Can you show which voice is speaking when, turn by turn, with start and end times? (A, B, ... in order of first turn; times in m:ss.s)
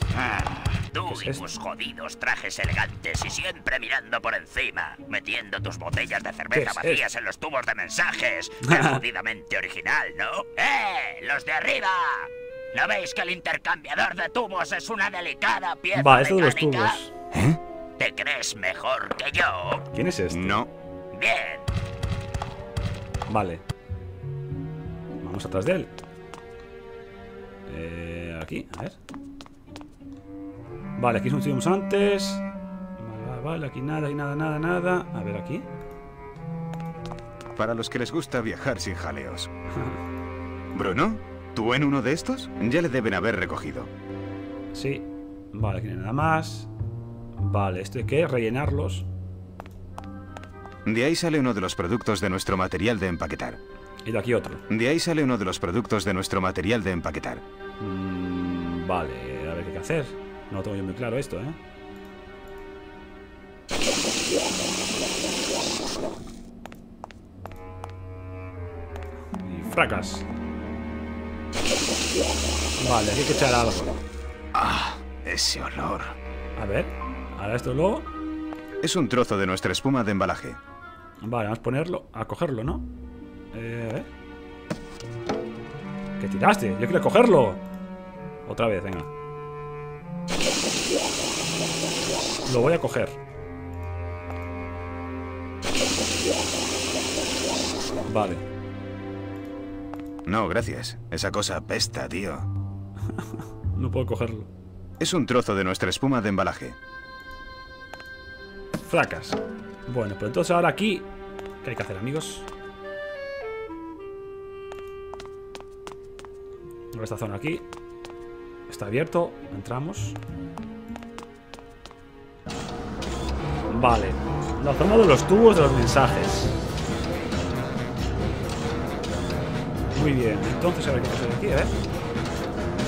0:00.1-0:17.0 A
0:01.1-0:01.4 B
0:06.5-0:07.0 B
0:08.6-0:09.0 B
0:15.9-0:17.1 B
0:17.3-0:17.6 C
0:18.0-0:19.8 A
0:19.9-0:20.6 B
0:20.3-0:20.7 C
0:21.1-0:21.7 A
0:23.3-0:23.6 B
0:25.2-0:25.9 B
0:27.7-0:29.0 B
0:31.0-0:32.4 B
0:33.0-0:35.7 B
0:37.6-0:39.5 C
0:40.7-0:43.9 C
0:44.7-0:46.7 B
0:47.4-0:49.0 B
0:50.8-0:53.6 C
0:54.0-0:54.6 B
0:54.7-0:57.4 C
0:57.8-1:01.6 B
1:09.4-1:10.2 B
1:12.8-1:13.9 B
1:14.5-1:16.1 C
1:16.6-1:18.1 B
1:18.8-1:20.6 C
1:21.2-1:22.8 B
1:23.5-1:24.1 B
1:26.2-1:27.6 B
1:28.4-1:29.1 B
1:32.4-1:33.2 B
1:38.1-1:38.4 B
1:40.2-1:42.5 C
1:43.1-1:44.5 B
1:45.0-1:46.8 C
1:48.9-1:51.1 B
1:51.6-1:52.5 B
1:56.9-1:57.7 B
1:58.7-2:00.2 B
2:03.7-2:06.5 B
2:09.9-2:11.7 B